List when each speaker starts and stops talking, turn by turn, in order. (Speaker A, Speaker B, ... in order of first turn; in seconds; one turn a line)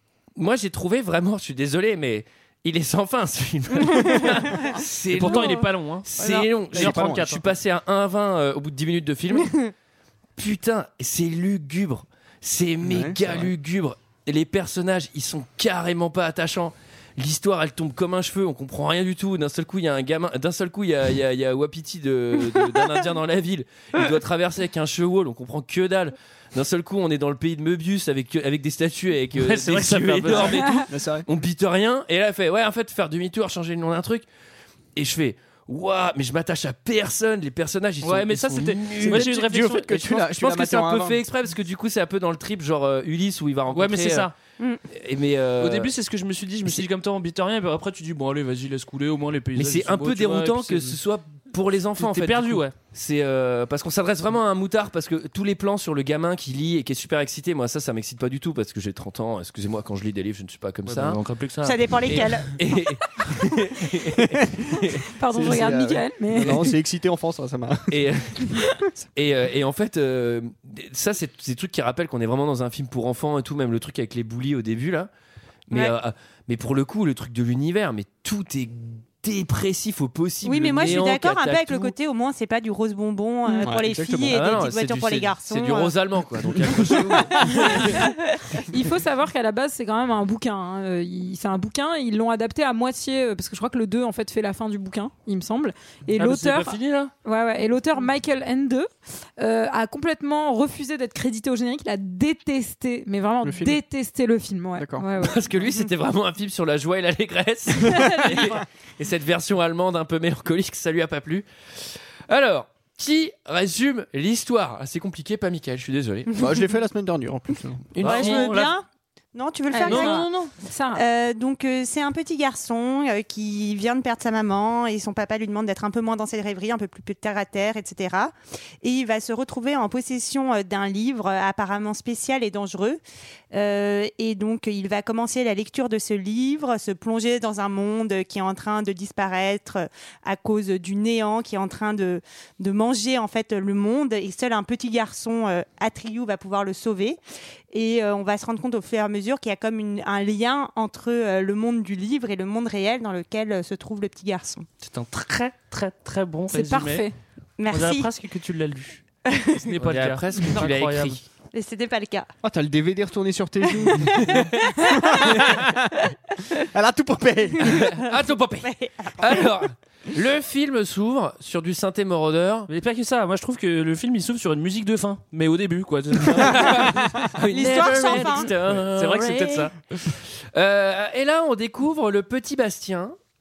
Speaker A: 0.4-9.6
Speaker B: 5.1-7.4
Speaker C: 6.7-7.3
Speaker A: 10.4-34.3
Speaker C: 12.8-13.4
Speaker B: 29.4-30.7
Speaker C: 30.9-31.3
Speaker A: 35.0-39.4
Speaker B: 38.0-40.0
Speaker C: 39.0-41.3
Speaker A: 39.9-44.3
Speaker B: 43.7-44.3
Speaker A: 44.9-45.9
Speaker B: 45.6-51.0
Speaker A: 49.6-61.2
Speaker B: 52.0-52.7
Speaker B: 60.9-61.8
Speaker D: 61.6-62.7
Speaker A: 62.1-65.0
Speaker E: 65.1-66.7
Speaker C: 65.3-68.9
Speaker A: 67.9-75.1
Speaker A: 75.7-81.9
Speaker D: 80.4-85.9
Speaker E: 83.5-83.7
Speaker C: 83.6-84.4
Speaker A: 84.3-88.0
Speaker C: 86.7-87.7
Speaker D: 87.6-88.1
Speaker E: 88.7-105.4
Speaker B: 96.2-97.1
Speaker C: 103.4-103.8
Speaker C: 104.8-105.1
Speaker A: 105.2-111.5
Speaker C: 107.9-108.2
Speaker E: 107.9-108.4
Speaker A: 112.3-116.3
Speaker C: 116.4-117.9
Speaker B: 118.0-118.7
Speaker D: 118.0-133.0
Speaker A: 118.0-118.4
Speaker E: 119.7-121.0
Speaker B: 119.8-120.3
Speaker D: 133.5-147.2
Speaker D: 147.7-154.7
Speaker B: 154.8-157.1
Speaker E: 156.5-157.1
Speaker D: 157.6-158.1
Speaker B: 157.7-159.0
Speaker D: 159.3-159.7
Speaker B: 159.7-161.2
Speaker A: 159.7-161.2
Speaker D: 161.5-162.3
Speaker C: 162.4-164.3
Speaker D: 163.8-164.4
Speaker A: 164.3-165.6
Speaker C: 164.9-165.9
Speaker C: 166.6-167.9
Speaker A: 167.7-172.7
Speaker D: 168.6-169.5
Speaker B: 172.7-179.7
Speaker A: 176.3-179.7
Speaker D: 177.5-178.5
Speaker A: 180.5-183.2